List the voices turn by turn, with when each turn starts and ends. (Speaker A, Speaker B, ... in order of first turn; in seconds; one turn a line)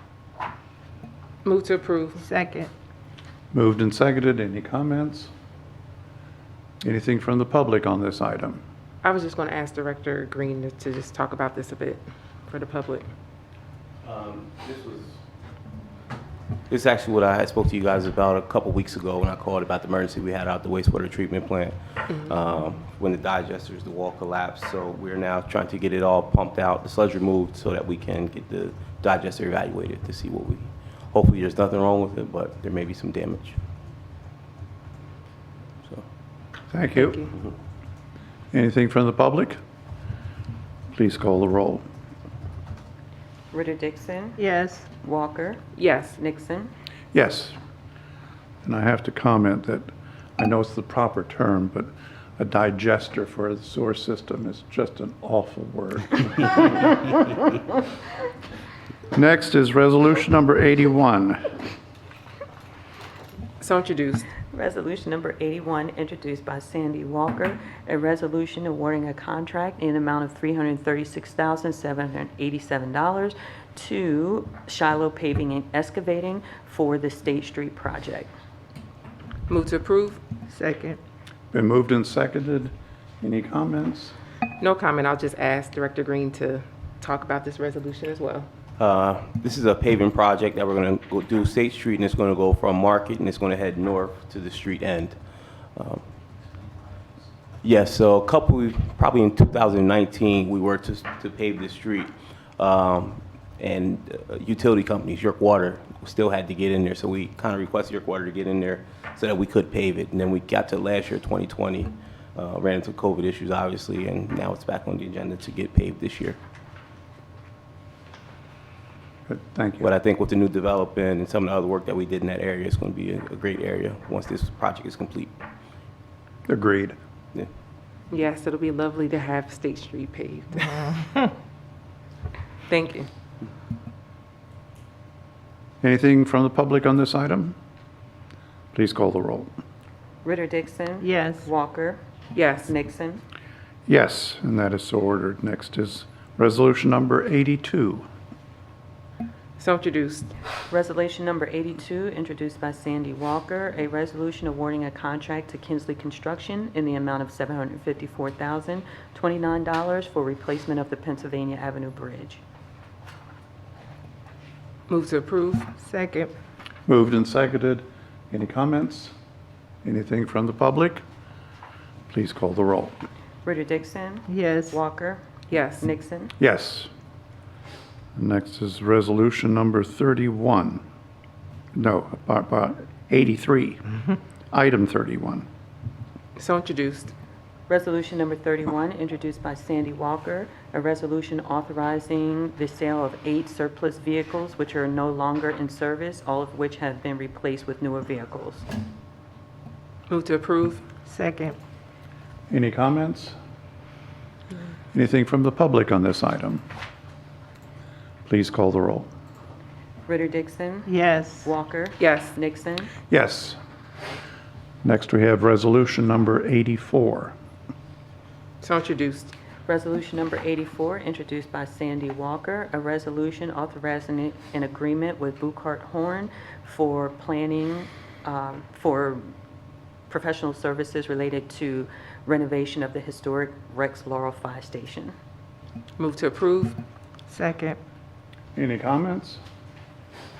Speaker A: 1.4-2.2
Speaker B: 2.2-2.7
Speaker C: 3.5-5.3
Speaker C: 6.8-8.6
Speaker A: 9.0-13.1
Speaker D: 14.0-15.2
Speaker D: 16.7-33.6
Speaker C: 36.7-37.3
Speaker C: 38.5-39.6
Speaker C: 40.9-41.8
Speaker E: 43.5-44.4
Speaker B: 44.4-44.9
Speaker E: 45.0-46.7
Speaker A: 45.8-46.2
Speaker C: 47.1-47.5
Speaker C: 48.6-57.3
Speaker C: 59.1-61.5
Speaker A: 63.6-64.3
Speaker E: 64.5-78.3
Speaker A: 79.5-80.2
Speaker B: 80.5-81.0
Speaker C: 81.5-84.1
Speaker A: 84.6-88.5
Speaker D: 88.8-95.2
Speaker D: 95.8-96.0
Speaker D: 97.6-116.4
Speaker C: 119.3-119.9
Speaker D: 119.8-125.3
Speaker C: 126.5-127.0
Speaker A: 128.1-131.0
Speaker A: 132.7-133.1
Speaker C: 135.8-137.6
Speaker C: 138.7-139.5
Speaker E: 140.2-142.0
Speaker B: 141.0-141.5
Speaker A: 142.3-142.7
Speaker E: 142.6-143.2
Speaker C: 143.8-148.1
Speaker A: 149.6-150.3
Speaker E: 150.7-162.4
Speaker A: 164.9-165.7
Speaker B: 165.8-166.3
Speaker C: 166.9-169.1
Speaker C: 169.8-171.0
Speaker C: 172.1-173.0
Speaker E: 173.4-175.2
Speaker B: 174.3-174.8
Speaker A: 175.5-175.9
Speaker E: 175.8-176.3
Speaker C: 176.4-176.9
Speaker C: 178.2-180.8
Speaker C: 181.7-183.8
Speaker C: 184.5-185.4
Speaker A: 186.4-187.1
Speaker E: 187.7-198.7
Speaker A: 200.1-200.8
Speaker B: 201.1-201.6
Speaker C: 202.5-203.3
Speaker C: 204.9-206.6
Speaker C: 208.2-209.1
Speaker E: 210.1-212.9
Speaker B: 210.8-211.5
Speaker A: 212.0-212.3
Speaker C: 213.1-213.6
Speaker C: 214.8-217.3
Speaker A: 218.6-219.3
Speaker E: 219.7-229.3
Speaker E: 230.1-235.1
Speaker A: 236.0-236.8
Speaker B: 237.3-237.8
Speaker C: 238.5-239.4